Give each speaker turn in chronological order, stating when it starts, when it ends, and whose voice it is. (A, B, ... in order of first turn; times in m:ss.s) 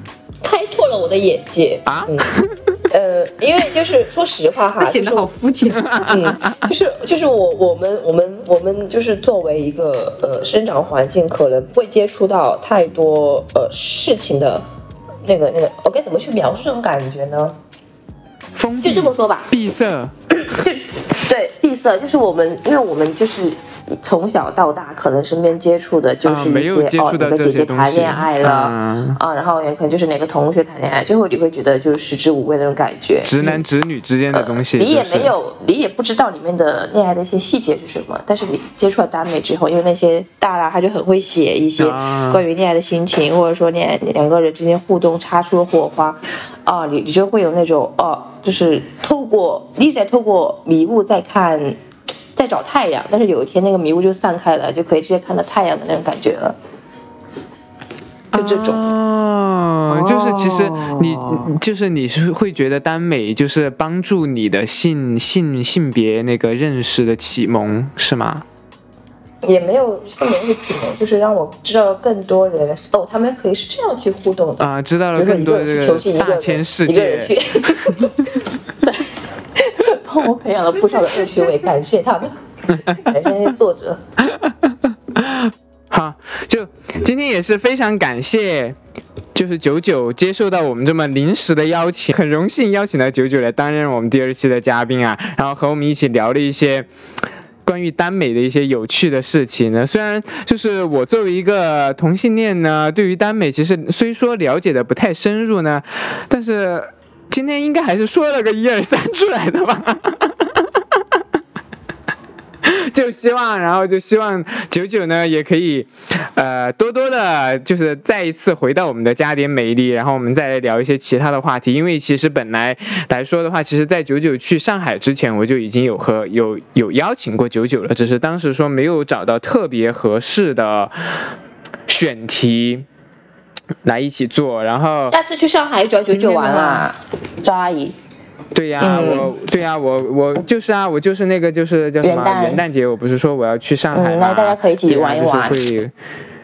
0:00.4-0:02.3 A
0:01.8-0:02.8 B
0:02.9-0:05.3 A
0:04.8-0:06.0 C
0:06.0-0:14.6 A
0:15.2-0:17.6 A
0:18.6-0:20.1 B
0:18.8-0:19.5 A
0:20.5-0:33.6 A
0:26.2-0:29.2 B
0:33.2-0:35.3 B
0:34.3-0:51.8 A
0:41.8-0:42.4 B
0:52.3-0:56.6 A
0:58.3-0:58.8 A
0:58.3-1:08.4 B
0:59.9-1:01.4 C
1:09.4-1:14.6 A
1:14.6-1:18.3 B
1:15.2-1:24.0 A
1:24.3-1:28.8 B
1:29.3-1:36.9 B
1:37.6-1:51.2 B
1:52.6-2:11.3 B
2:11.9-2:12.8 B
2:13.8-2:15.1 B
2:15.1-2:17.9 A
2:16.1-2:16.9 B
2:18.5-2:25.9 B
2:18.8-2:19.3 A
2:22.0-2:22.6 A
2:23.9-2:25.6 A